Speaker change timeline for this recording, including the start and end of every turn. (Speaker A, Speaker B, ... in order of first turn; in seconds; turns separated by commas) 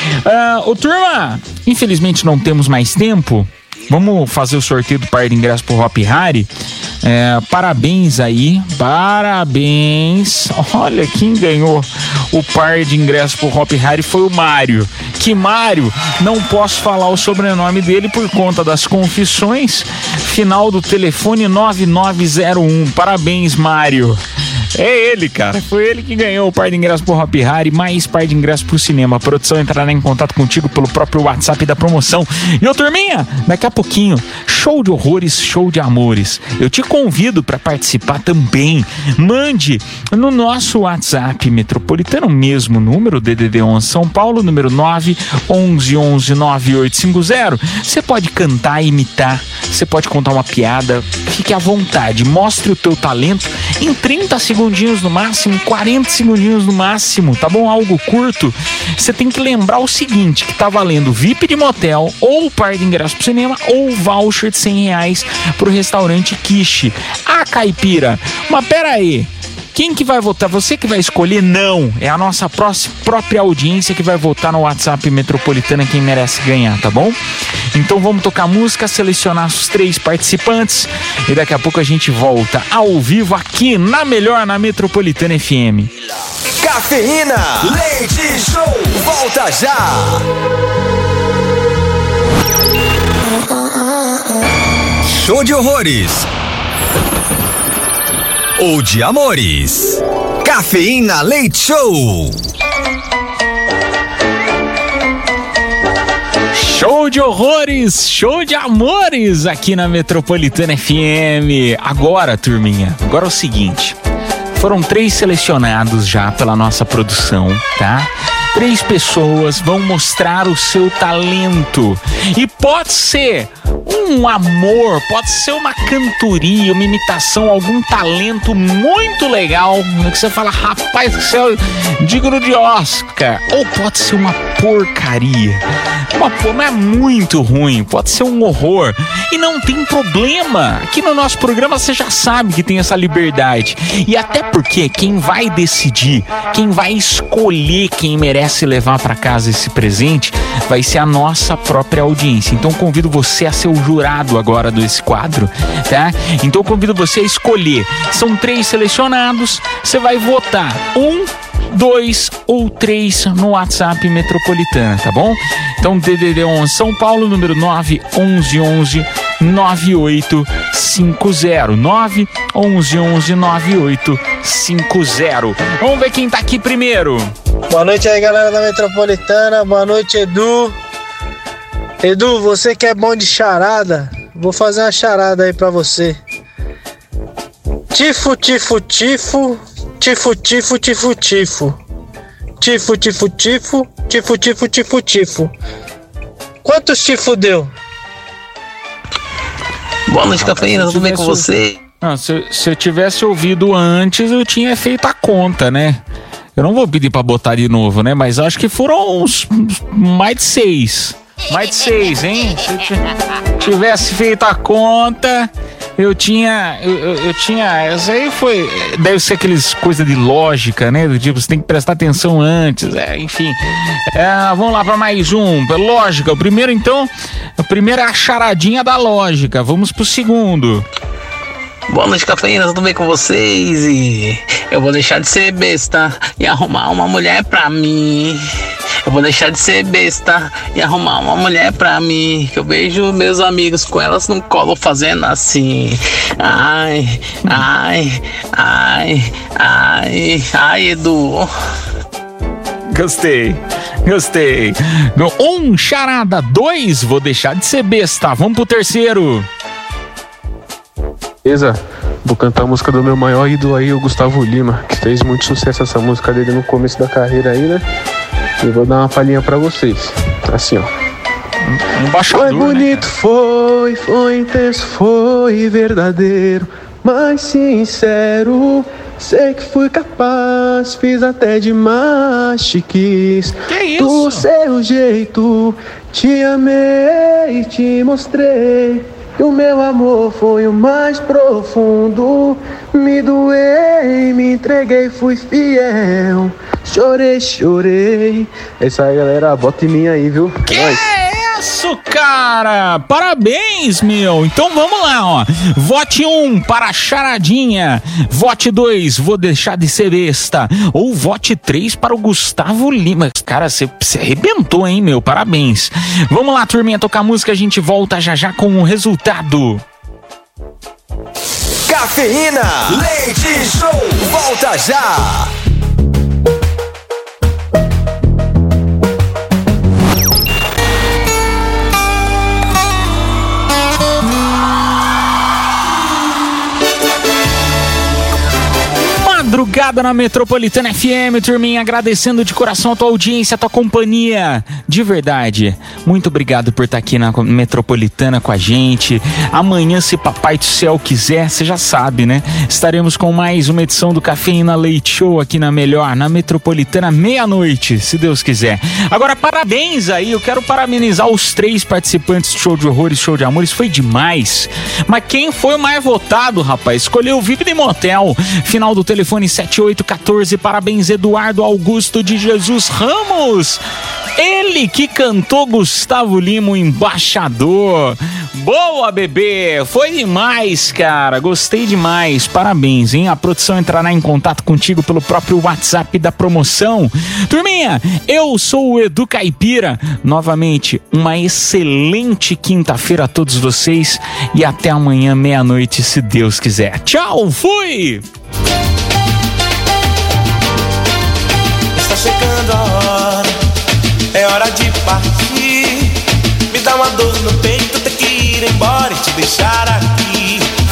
Speaker A: 0.2-6.5, Speaker A: 7.0-24.2, Speaker A: 24.7-77.2, Speaker A: 77.7-85.9, Speaker B: 86.6-90.2, Speaker B: 95.1-96.3, Speaker B: 98.6-102.4, Speaker A: 106.5-114.0, Speaker A: 114.5-177.3, Speaker C: 177.7-180.7, Speaker C: 182.0-186.2, Speaker C: 187.9-191.8, Speaker C: 192.6-195.5, Speaker C: 196.6-197.7, Speaker D: 200.1-201.8, Speaker A: 200.4-201.5, Speaker A: 202.0-206.0, Speaker A: 206.6-213.0, Speaker A: 213.6-223.6, Speaker A: 224.1-230.8, Speaker D: 231.9-238.4, Speaker D: 239.0-251.5, Speaker A: 252.9-259.5, Speaker E: 261.4-267.8, Speaker E: 268.6-270.9, Speaker A: 271.6-273.1, Speaker E: 272.3-301.0, Speaker A: 283.7-284.4, Speaker A: 300.6-319.8, Speaker B: 321.9-325.5, Speaker A: 339.0-373.8, Speaker A: 374.4-398.2, Speaker F: 402.2-403.4, Speaker F: 404.5-405.0, Speaker F: 406.9-409.8